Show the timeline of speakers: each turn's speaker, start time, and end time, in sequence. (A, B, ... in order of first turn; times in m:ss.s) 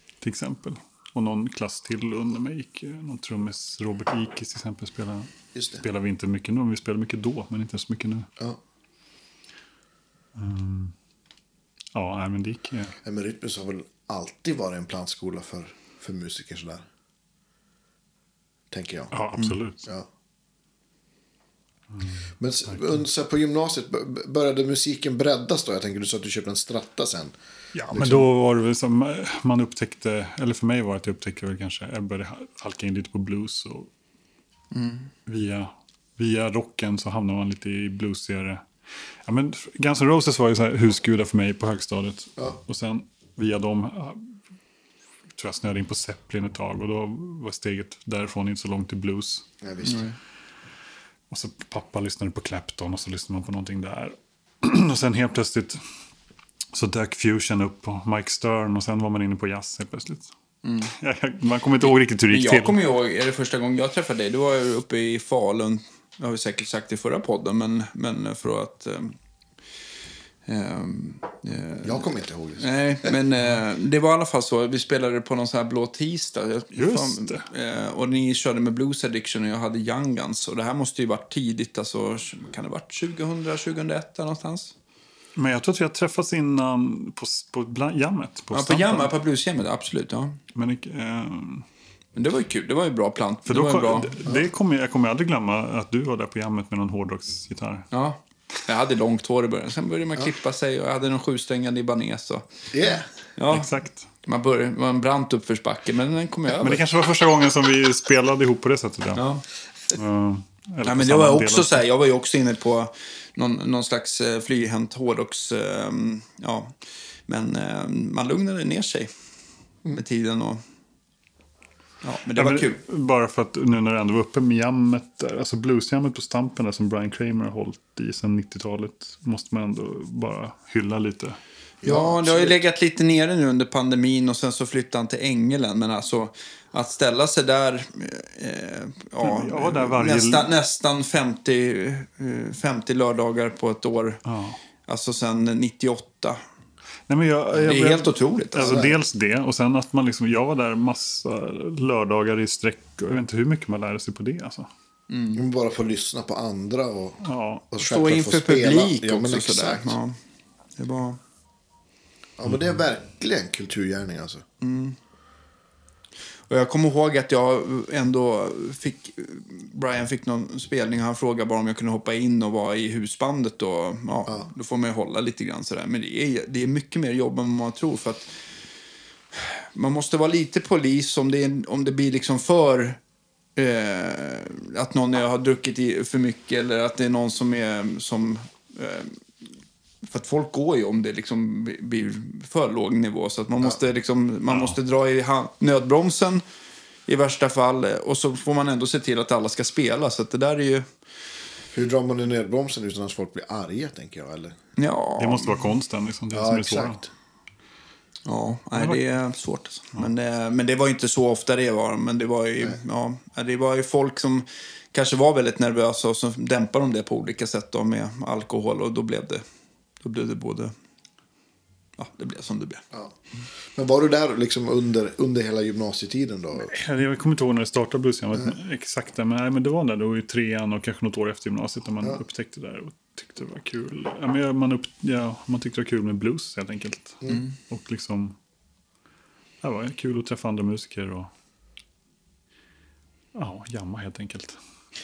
0:00.2-0:08.3 A
0:05.5-0:05.8 B
0:10.3-0:10.9 A
0:11.9-0:13.0 A
0:13.0-0:16.8 B
0:18.7-0:19.1 B
0:19.1-0:19.9 A
0:21.9-0:23.0 A
0:22.4-0:27.3 B
0:27.7-0:33.9 A
0:27.9-0:28.3 B
0:34.7-0:35.1 C
0:35.2-0:38.7 A
0:39.2-0:44.4 A
0:45.4-0:49.5 A
0:49.6-0:50.0 B
0:49.8-0:50.2 C
0:51.3-0:55.8 A
0:56.7-1:00.3 A
1:00.6-1:00.9 C
1:00.8-1:02.8 A
1:01.8-1:09.2 C
1:10.4-1:24.7 C
1:11.8-1:13.1 B
1:16.7-1:17.5 A
1:25.4-1:29.1 A
1:28.5-1:30.4 C
1:30.5-1:31.6 A
1:32.1-1:34.2 C
1:33.4-1:37.9 A
1:37.9-1:42.6 C
1:42.7-1:43.1 B
1:43.4-1:46.9 C
1:43.5-1:44.1 A
1:46.5-1:49.2 A
1:49.1-1:49.4 C
1:49.9-1:51.8 A
1:50.8-1:59.1 C
1:59.9-2:00.6 C
2:02.0-2:02.8 C
2:02.3-2:11.4 A
2:11.8-2:12.6 B
2:11.8-2:24.2 C
2:19.2-2:20.5 A
2:24.2-2:24.6 A
2:24.8-2:26.4 C
2:27.1-2:34.7 A
2:27.6-2:28.8 C
2:28.6-2:28.9 B
2:35.1-2:35.4 C
2:35.3-2:40.0 B
2:37.2-2:37.6 A
2:37.8-2:40.2 C
2:40.8-2:41.2 C
2:42.4-2:44.4 B
2:44.6-2:45.0 C
2:46.5-2:58.5 C
2:59.3-3:03.0 C
3:03.6-3:16.4 C
3:14.5-3:14.8 A
3:17.1-3:20.9 C
3:21.7-3:24.6 B
3:24.8-3:25.6 C
3:25.2-3:27.0 A
3:26.3-3:27.0 B
3:28.2-3:39.4 C
3:28.7-3:29.0 A
3:40.0-3:40.7 C
3:42.0-3:42.8 C
3:43.7-3:46.7 B
3:46.6-3:58.4 A
3:57.3-3:57.5 C
3:59.6-4:01.3 A
4:03.3-4:04.6 A